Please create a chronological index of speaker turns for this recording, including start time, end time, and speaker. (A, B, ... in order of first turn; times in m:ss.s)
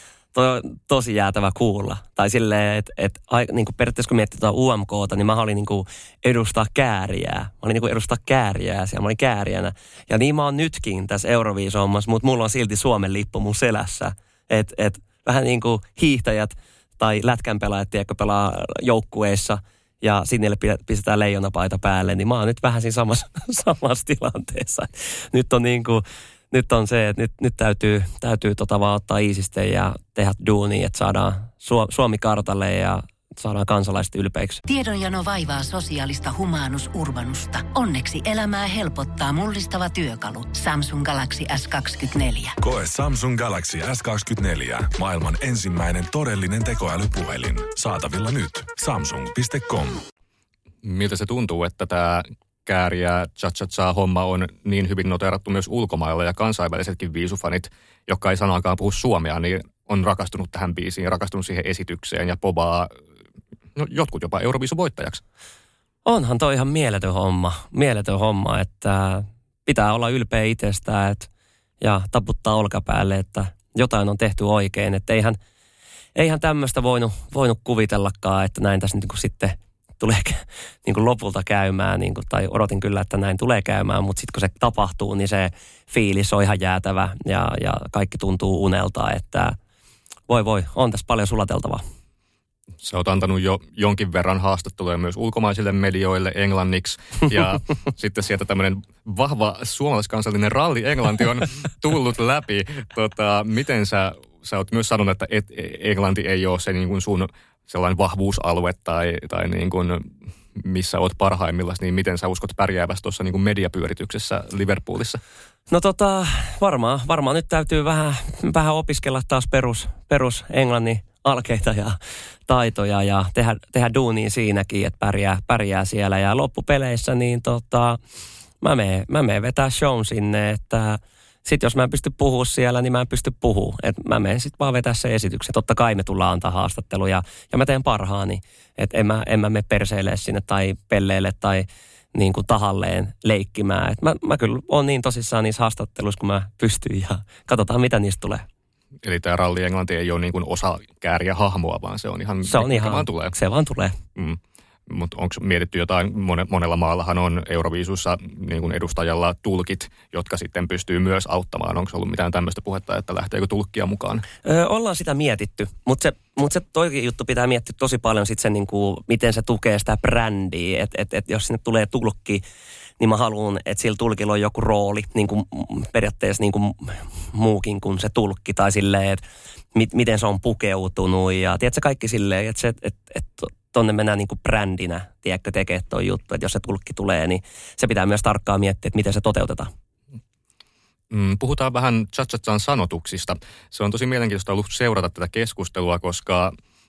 0:00.3-0:34.6 A
0:34.7-0:42.6 B
0:42.6-0:50.0 C
0:50.8-1:02.9 D
1:03.8-1:05.2 D
1:06.0-1:11.3 A
1:11.8-1:15.4 A
1:16.1-1:29.6 A
1:30.3-1:31.8 A
1:32.8-1:55.2 D
1:55.7-2:08.0 A
2:08.6-2:28.4 A
2:29.0-2:33.3 D
2:32.5-2:34.0 A
2:34.2-2:44.2 D
2:44.4-2:52.4 A
2:53.0-3:09.7 A
3:11.1-3:16.5 D